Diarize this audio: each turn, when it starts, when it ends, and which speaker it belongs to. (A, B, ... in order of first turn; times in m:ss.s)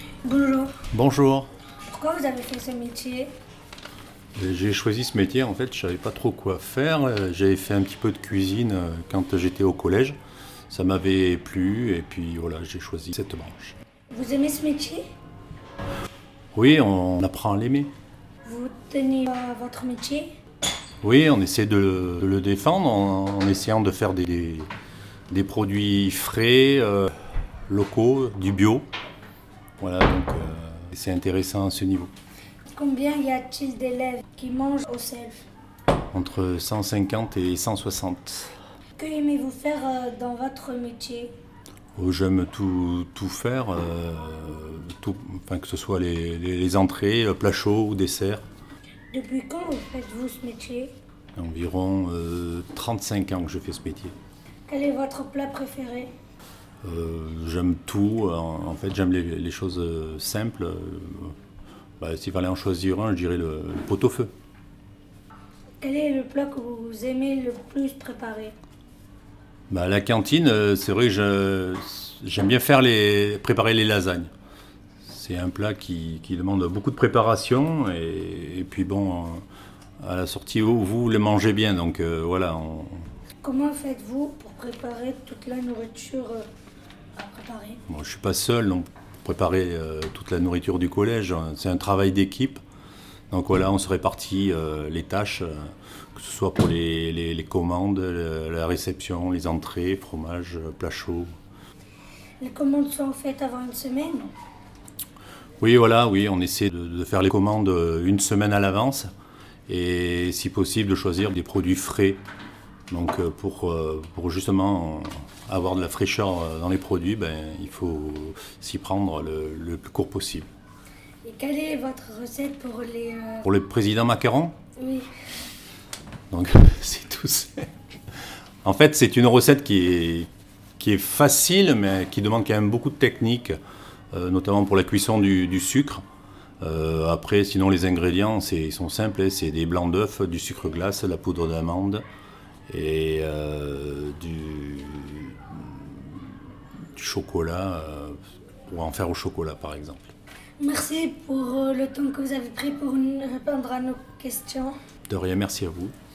0:00.2-0:00.8 A
0:00.9-0:01.5 B
0:01.9-0:03.3 A
0:04.3-0:10.2 B
0:10.7-0:13.8 B
0:14.1-0:15.0 A
0:16.5-0:17.9 B
0:18.4-0:20.3 A
0:21.0-0:24.7 B
0:25.3-0:27.1 B
0:27.7-0:28.9 B
0:29.8-0:32.1 B
0:32.7-0:35.4 A
0:36.1-0:38.5 B
0:39.0-0:41.3 A
0:42.0-0:48.4 B
0:49.1-0:50.9 A
0:51.4-0:54.2 B
0:54.7-0:56.1 A
0:56.8-1:01.3 B
1:02.0-1:04.3 B
1:05.8-1:08.6 A
1:09.7-1:14.3 B
1:15.0-1:19.4 B
1:20.0-1:23.0 B
1:23.4-1:26.5 A
1:27.2-1:27.8 A
1:27.9-1:32.6 B
1:33.3-1:41.3 B
1:42.4-1:44.3 A
1:45.6-1:49.1 B
1:49.7-1:52.2 B
1:52.9-2:00.5 B
2:01.2-2:03.4 A
2:03.4-2:04.6 B
2:04.8-2:05.1 A
2:06.3-2:07.7 B
2:08.6-2:13.6 B
2:14.1-2:16.0 B
2:16.6-2:22.0 B
2:22.7-2:26.2 B
2:27.0-2:30.1 B
2:30.6-2:34.7 A
2:35.1-2:35.9 B